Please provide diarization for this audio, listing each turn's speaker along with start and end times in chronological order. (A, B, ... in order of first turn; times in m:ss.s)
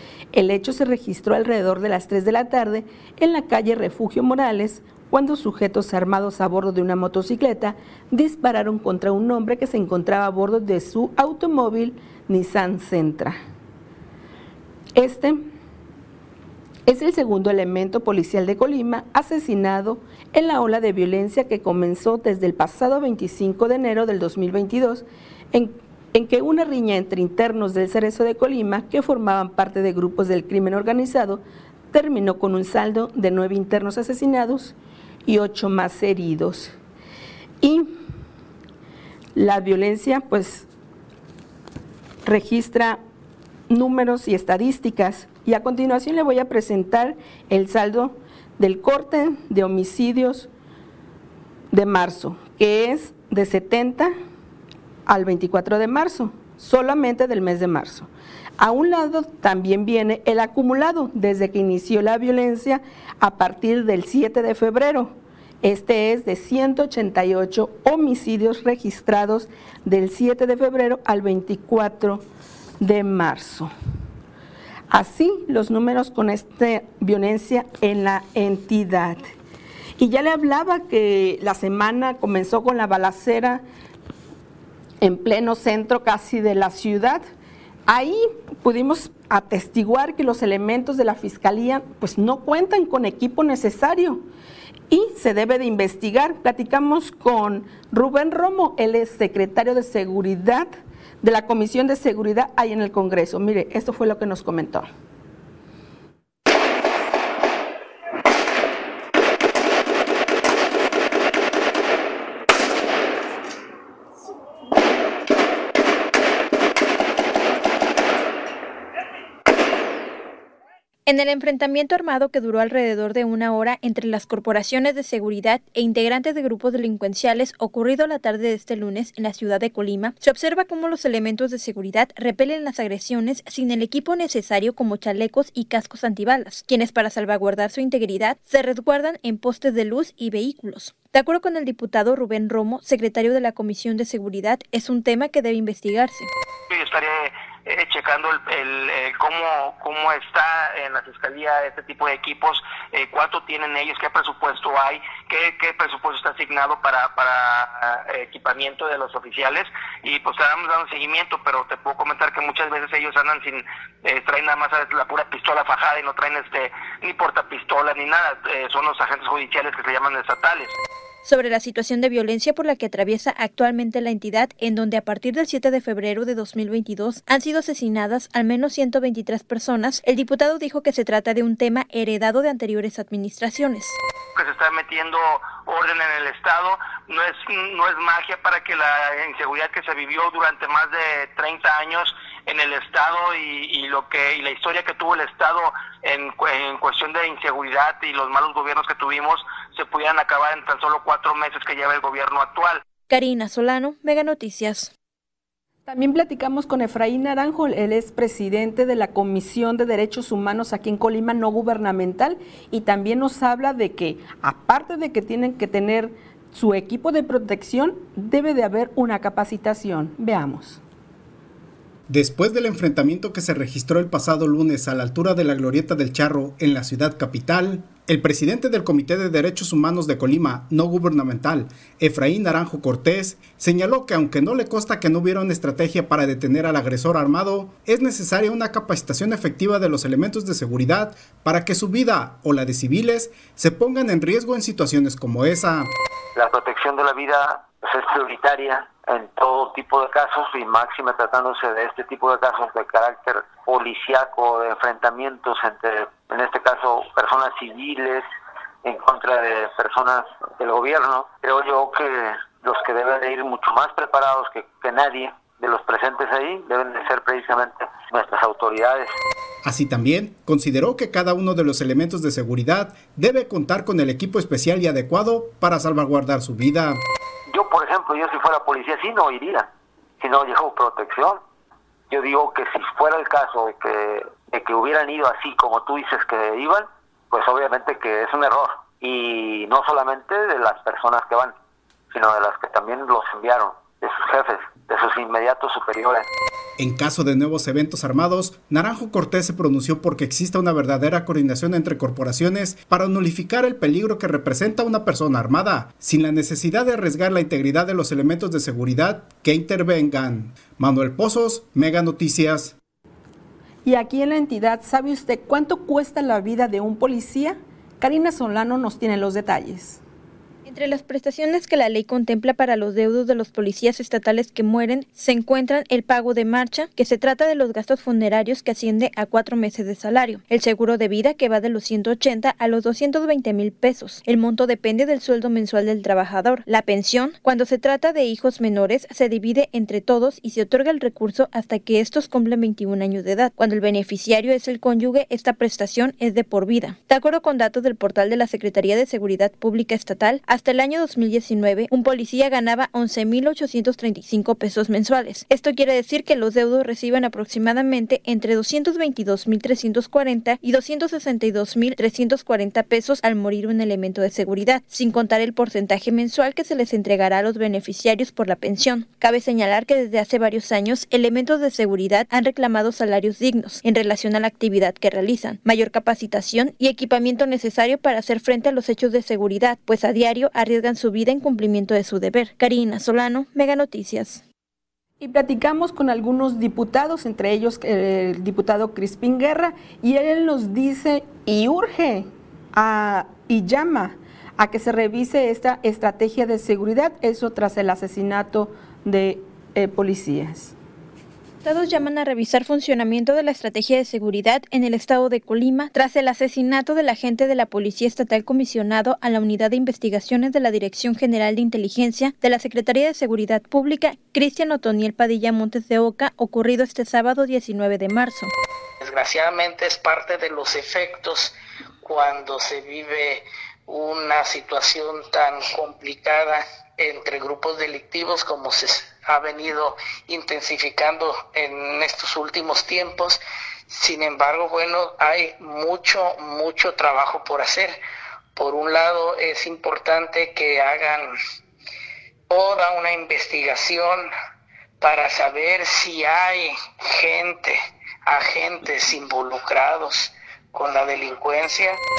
0:00.3-0:13.4 A
0:14.9-0:15.5 A
0:16.8-0:34.7 A
0:35.2-0:36.7 A
0:37.6-0:37.9 A
0:39.4-0:40.6 A
0:42.2-0:43.0 A
0:43.7-0:50.5 A
0:51.7-0:54.1 A
0:55.1-1:12.2 A
1:12.8-1:13.7 A
1:14.9-1:19.3 A
1:20.0-1:23.6 A
1:25.0-1:27.2 A
1:27.9-1:34.2 A
1:34.9-1:40.7 A
1:41.2-1:44.9 A
2:01.1-2:26.3 B
2:26.7-2:50.7 C
2:51.2-3:04.0 B
3:04.4-3:22.8 C
3:23.1-3:24.9 B
3:25.8-3:40.8 A
3:42.1-4:05.9 D
4:06.4-4:18.2 E
4:18.9-4:22.1 E
4:22.6-4:29.0 E
4:29.6-4:37.0 D
4:37.5-4:39.6 E
4:40.2-4:41.3 E
4:42.2-4:43.8 E
4:44.6-4:46.8 E
4:47.4-4:47.8 E
4:49.8-4:51.5 E
4:52.2-4:52.8 E
4:53.4-4:53.6 E
4:55.0-4:56.2 E
4:56.8-5:12.7 D
5:13.8-5:20.0 A
5:20.6-6:24.4 B
6:25.2-6:40.7 A
6:41.6-6:58.5 B
6:59.0-7:18.0 F
7:18.6-7:21.3 F
7:22.5-7:24.3 F
7:25.0-7:32.0 F